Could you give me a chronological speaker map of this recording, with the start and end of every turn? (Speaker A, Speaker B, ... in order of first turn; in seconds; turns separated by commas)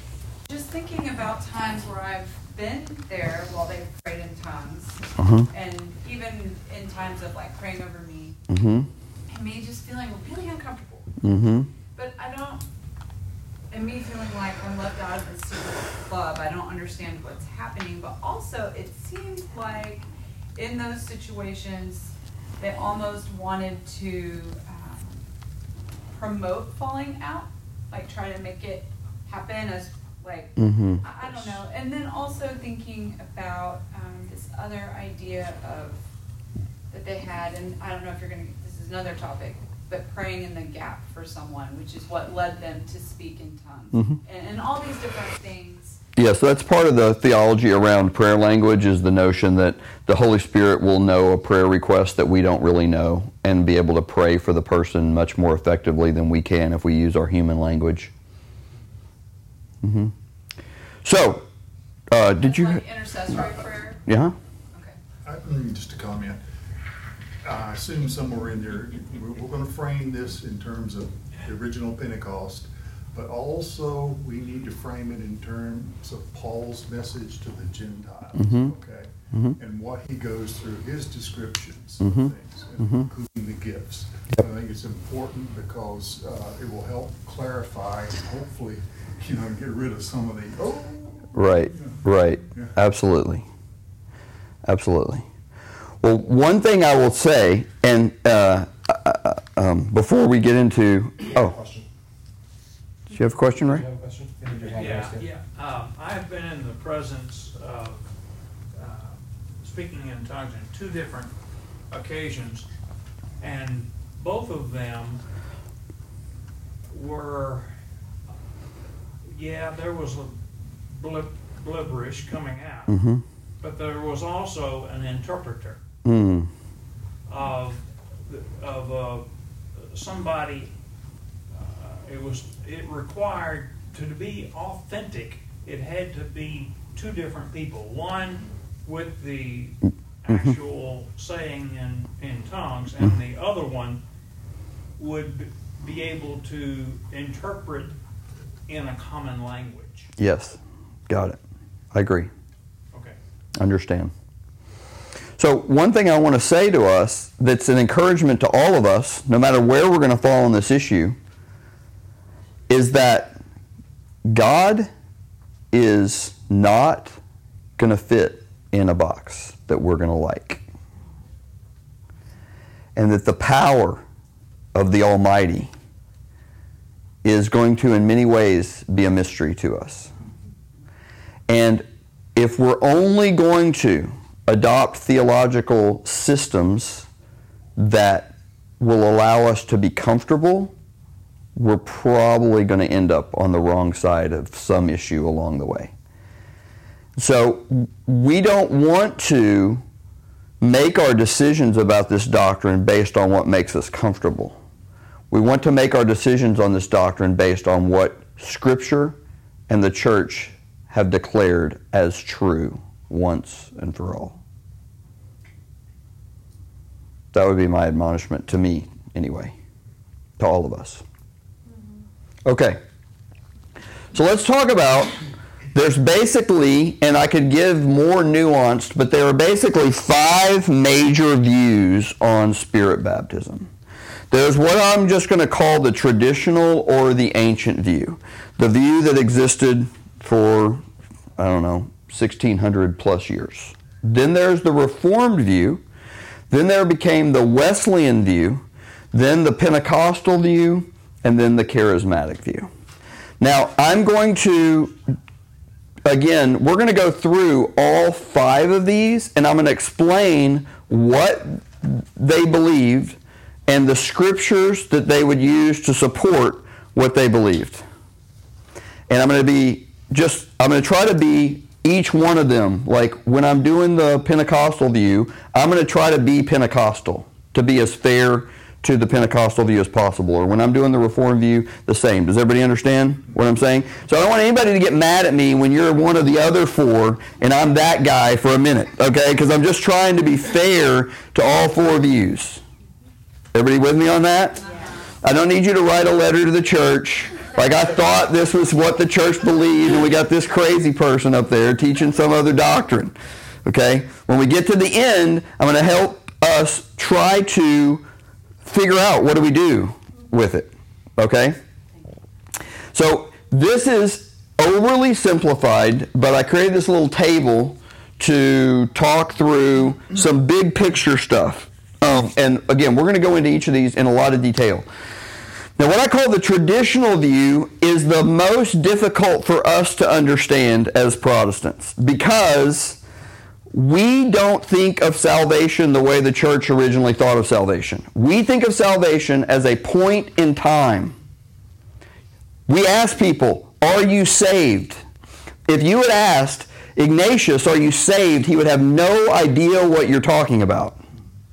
Speaker A: 0.4-8.4, Speaker B: 5.2-5.5, Speaker B: 8.5-8.9, Speaker A: 9.3-11.1, Speaker B: 11.2-11.7, Speaker A: 11.9-12.7, Speaker A: 13.7-25.3, Speaker A: 26.1-36.0, Speaker B: 30.6-31.0, Speaker A: 36.9-46.0, Speaker B: 46.1-58.1, Speaker B: 59.8-60.1, Speaker B: 61.0-61.4, Speaker B: 62.1-62.8, Speaker A: 62.4-64.0, Speaker B: 64.0-64.3, Speaker C: 65.2-66.4, Speaker C: 67.4-92.0, Speaker B: 78.4-78.7, Speaker B: 82.0-82.3, Speaker B: 91.3-93.4, Speaker B: 94.6-95.2, Speaker B: 96.0-101.6, Speaker D: 101.2-101.8, Speaker B: 103.1-103.8, Speaker D: 103.4-105.2, Speaker E: 104.7-108.0, Speaker E: 108.7-111.3, Speaker E: 111.9-112.7, Speaker E: 113.4-115.2, Speaker E: 116.9-117.7, Speaker E: 119.3-123.0, Speaker B: 122.9-123.2, Speaker E: 123.6-125.8, Speaker B: 126.0-126.5, Speaker E: 127.3-130.7, Speaker E: 131.5-144.0, Speaker B: 140.3-140.6, Speaker E: 145.0-148.0, Speaker E: 148.7-150.1, Speaker B: 150.2-151.4, Speaker B: 151.9-152.3, Speaker B: 153.6-154.1, Speaker B: 155.4-161.2, Speaker B: 162.7-163.4, Speaker B: 164.2-164.9, Speaker B: 165.7-167.2, Speaker B: 167.8-170.6, Speaker B: 172.9-174.0, Speaker B: 174.7-175.7, Speaker B: 177.2-180.1, Speaker B: 181.5-187.1, Speaker B: 187.8-190.7, Speaker B: 191.6-195.9, Speaker B: 197.2-199.8, Speaker B: 200.6-204.6, Speaker B: 205.3-209.2, Speaker B: 209.7-214.3, Speaker B: 217.3-219.5, Speaker B: 220.4-221.0, Speaker B: 222.4-222.8, Speaker B: 224.1-225.1, Speaker B: 225.7-233.7, Speaker B: 234.3-240.8, Speaker B: 241.4-245.8, Speaker B: 246.5-252.7, Speaker B: 253.4-255.0, Speaker B: 256.0-267.8, Speaker B: 269.1-292.6, Speaker B: 293.5-294.6, Speaker A: 294.6-295.1, Speaker B: 295.2-308.0, Speaker B: 308.6-311.6, Speaker B: 312.9-324.9, Speaker B: 325.8-333.0, Speaker B: 333.7-341.1, Speaker B: 342.7-345.0, Speaker B: 345.7-351.0